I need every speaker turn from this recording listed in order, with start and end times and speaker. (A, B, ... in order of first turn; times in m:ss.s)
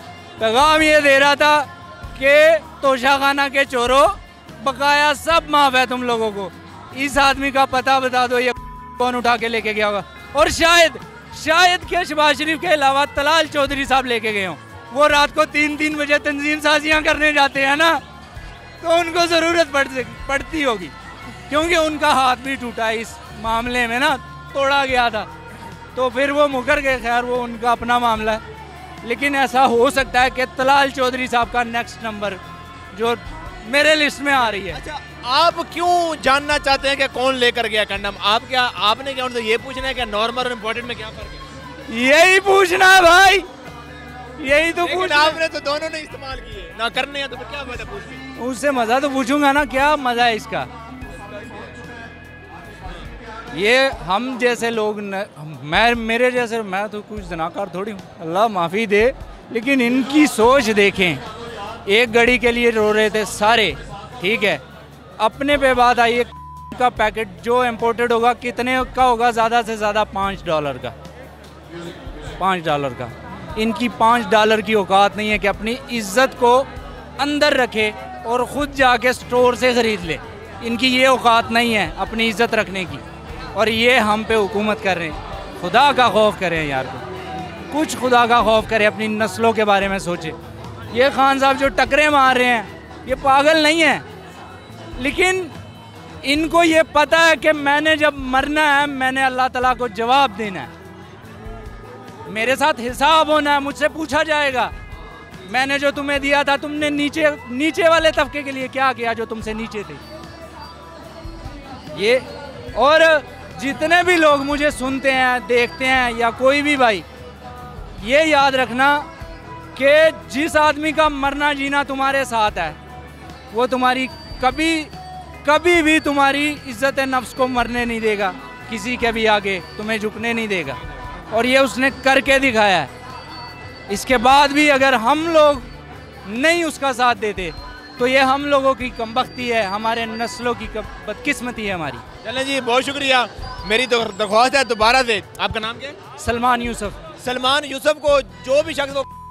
0:00.4-0:18.0 A
0:18.8-0:20.9 A
0:21.5-0:25.3 A
0:25.9-0:28.4 A
0:29.0-0:32.4 A
0:32.9-0:34.8 A
0:34.7-0:41.4 B
0:41.9-0:43.5 A
0:44.4-0:45.4 A
0:44.8-0:48.2 B
0:48.4-0:50.7 A
0:53.5-1:01.2 A
1:01.8-1:04.6 A
1:05.2-1:10.9 A
1:12.4-1:27.0 A
1:27.7-1:30.4 A
1:30.9-1:34.0 A
1:35.0-1:35.5 A
1:36.2-1:40.7 A
1:42.2-1:44.7 A
1:45.4-1:50.0 A
1:51.9-1:57.0 A
1:58.0-1:59.1 A
1:59.7-2:02.8 A
2:03.5-2:04.9 A
2:05.4-2:10.8 A
2:11.3-2:12.9 A
2:13.9-2:15.7 A
2:16.2-2:22.0 A
2:22.2-2:26.0 B
2:26.2-2:27.0 A
2:27.2-2:29.1 B